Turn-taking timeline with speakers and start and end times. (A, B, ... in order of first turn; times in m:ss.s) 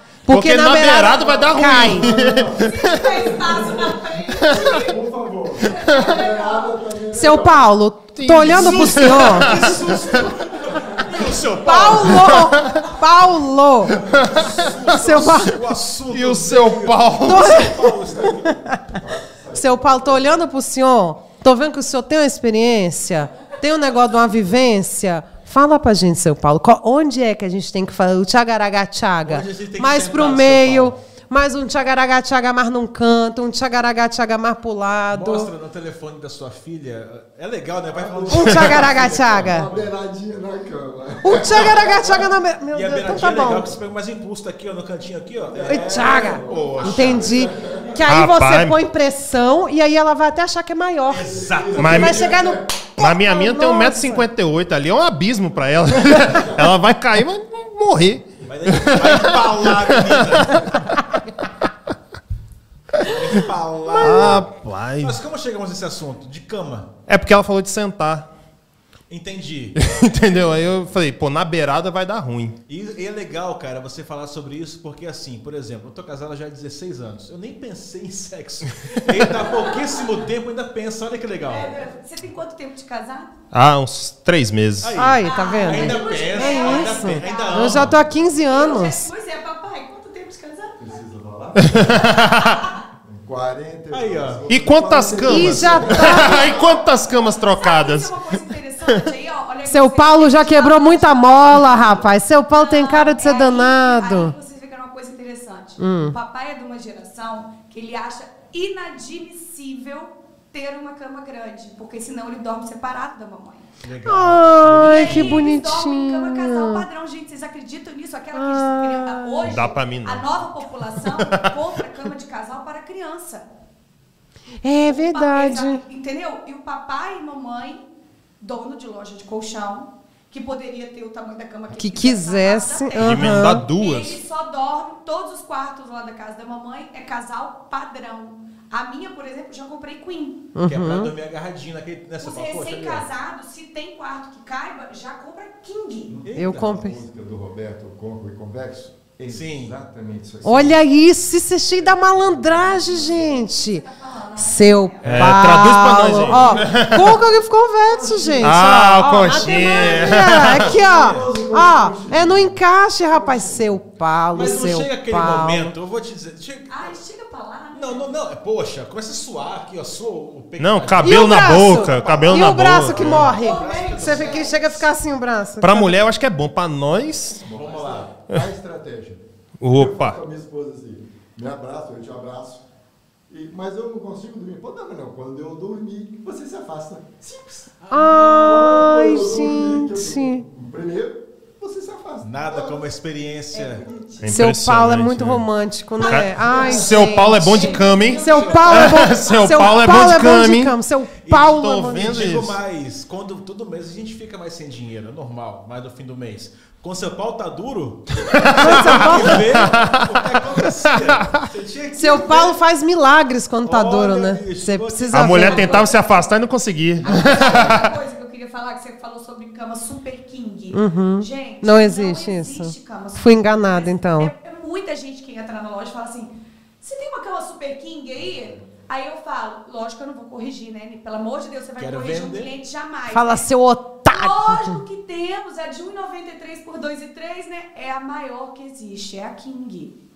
0:00.3-0:02.1 A
0:00.3-0:03.0 B
0:01.2-0:07.7 C
0:02.6-0:05.0 D
0:05.6-0:06.8 D
0:07.1-0:09.7 A
0:08.2-0:10.2 B
0:08.4-0:12.4 E
0:09.8-0:11.4 C
0:11.6-0:14.0 A
0:12.2-0:12.9 B
0:14.0-0:18.6 E
0:14.0-0:14.7 B
0:14.1-0:14.8 C
0:14.6-0:15.6 A
0:16.1-0:17.9 B
0:17.2-0:18.9 A
0:18.0-0:20.4 C
0:19.5-0:35.5 A
0:29.2-0:31.0 E
0:35.1-0:39.9 E
0:37.9-0:42.0 C
0:38.3-0:39.7 A
0:41.2-0:43.7 A
0:41.5-0:47.6 E
0:45.4-0:48.1 C
0:45.7-0:54.2 A
0:48.1-0:48.8 B
0:51.1-0:52.3 E
0:51.2-0:52.8 C
0:51.8-0:52.3 B
0:53.0-1:01.0 B
0:56.2-0:56.6 C
0:58.4-1:00.8 E
1:03.0-1:04.5 E
1:04.0-1:05.2 B
1:04.0-1:04.4 A
1:05.0-1:06.9 E
1:07.1-1:08.3 B
1:09.1-1:09.8 E
1:09.7-1:12.6 B
1:12.7-1:21.8 E
1:19.4-1:20.0 D
1:21.4-1:23.3 D
1:23.5-1:25.1 B
1:24.8-1:28.0 E
1:24.9-1:29.1 A
1:25.2-1:30.8 D
1:30.8-1:32.3 C
1:31.6-1:32.6 B
1:32.0-1:32.8 D
1:33.0-1:36.5 C
1:33.9-1:34.4 E
1:34.5-1:39.0 B
1:35.2-1:36.5 A
1:36.0-1:53.7 D
1:39.6-1:44.3 A
1:45.8-1:46.1 A
1:53.8-1:55.6 E
1:54.0-1:56.8 A
1:54.8-2:03.4 D
1:58.3-1:59.6 A
1:59.4-2:00.3 B
2:00.9-2:01.6 B
2:04.6-2:05.8 A
2:04.8-2:07.8 D
2:08.4-2:20.5 D
2:11.7-2:13.7 A
2:13.0-2:14.2 B
2:20.5-2:21.1 A
2:20.6-2:23.1 E
2:22.2-2:26.2 D
2:26.1-2:30.8 C
2:26.2-2:26.8 E
2:26.4-2:27.0 A
2:29.3-2:29.7 E
2:30.4-2:33.8 A
2:31.8-2:33.2 C
2:33.2-2:35.3 D
2:34.4-2:45.7 A
2:35.0-2:35.4 E
2:35.0-2:37.2 B
2:36.2-2:36.8 C
2:37.8-2:38.7 C
2:38.4-2:40.7 B
2:39.5-2:43.8 C
2:40.5-2:41.3 E
2:44.3-2:47.0 E
2:46.7-2:48.1 D
2:47.7-2:54.9 E
2:50.6-2:53.3 B
2:51.0-2:56.0 A
2:53.1-2:54.6 D
2:55.6-2:57.4 B
2:57.4-3:02.6 C
2:57.5-2:58.1 E
2:59.6-3:00.2 B
3:03.3-3:12.8 C
3:07.8-3:08.9 E
3:07.9-3:10.4 A
3:12.2-3:13.8 E
3:13.5-3:14.3 D
3:13.7-3:14.3 C
3:14.2-3:20.8 B
3:14.3-3:22.2 A
3:16.0-3:19.8 D
3:18.1-3:18.9 E
3:21.2-3:32.6 E
3:21.3-3:22.6 B
3:28.2-3:31.5 B
3:28.6-3:29.6 A
3:31.9-3:35.9 A
3:33.6-3:35.8 E
3:35.1-3:38.0 B
3:35.4-3:36.3 D
3:37.0-3:53.5 D
3:37.1-3:37.8 E
3:40.7-3:44.3 A
3:51.8-3:52.5 E
3:53.1-3:54.8 A
3:54.1-4:00.0 D